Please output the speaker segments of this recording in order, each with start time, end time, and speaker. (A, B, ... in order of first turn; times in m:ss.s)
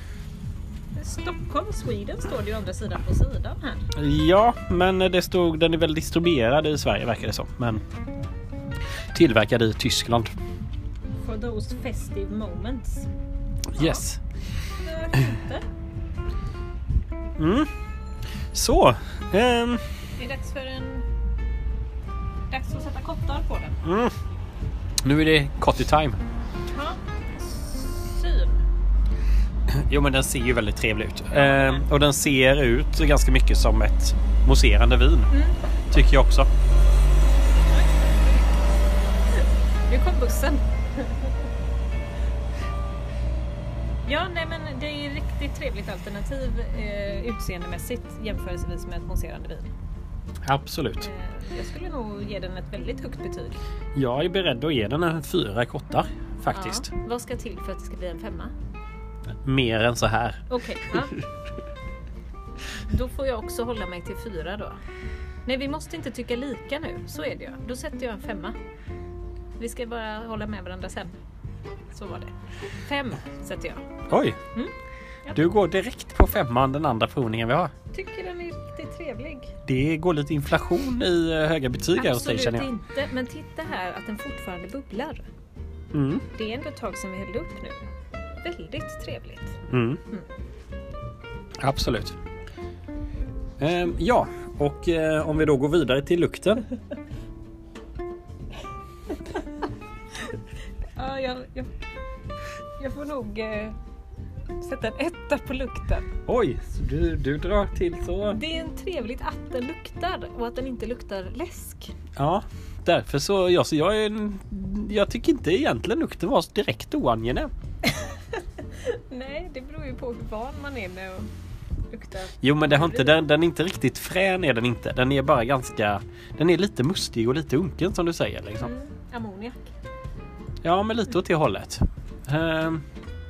0:01.0-0:03.8 A
0:03.9-0:07.8 B
0:09.1-0:10.3 B
0:11.2-0:13.1 A
0:13.7-0:14.2 B
0:13.7-0:14.0 A
0:14.8-0:15.6 A
0:17.4-0:17.7 B
0:18.5-0:19.8 B
0:20.2-0:21.0 A
0:22.5-0:23.8 A
0:23.8-0:24.1 B
0:25.0-0:26.2 B
0:26.7-0:28.6 A
0:29.7-0:35.3 B
0:31.3-0:31.9 A
0:35.3-0:35.6 A
0:35.9-0:36.5 B
0:37.4-0:41.5 A
0:44.0-0:49.7 A
0:50.4-0:51.1 B
0:51.0-0:53.6 A
0:53.9-0:56.9 B
0:56.5-0:58.5 A
0:59.4-1:00.4 B
1:00.5-1:01.2 A
1:02.9-1:04.8 A
1:05.4-1:08.6 A
1:09.6-1:11.1 A
1:11.9-1:12.3 A
1:12.8-1:14.7 A
1:14.1-1:14.4 B
1:15.3-1:17.7 B
1:17.9-1:19.5 A
1:19.6-1:22.7 B
1:22.0-1:25.2 A
1:25.9-1:26.2 B
1:26.3-1:27.8 A
1:28.4-1:29.6 A
1:29.7-1:30.0 B
1:31.6-1:32.2 B
1:33.6-1:36.6 B
1:41.0-1:41.7 A
1:42.8-1:43.8 A
1:44.6-1:46.1 A
1:46.3-1:48.4 B
1:48.3-1:51.9 A
1:52.2-1:57.5 B
1:57.8-2:01.3 A
2:01.9-2:03.2 A
2:02.4-2:08.7 B
2:08.6-2:09.7 A
2:10.6-2:12.8 B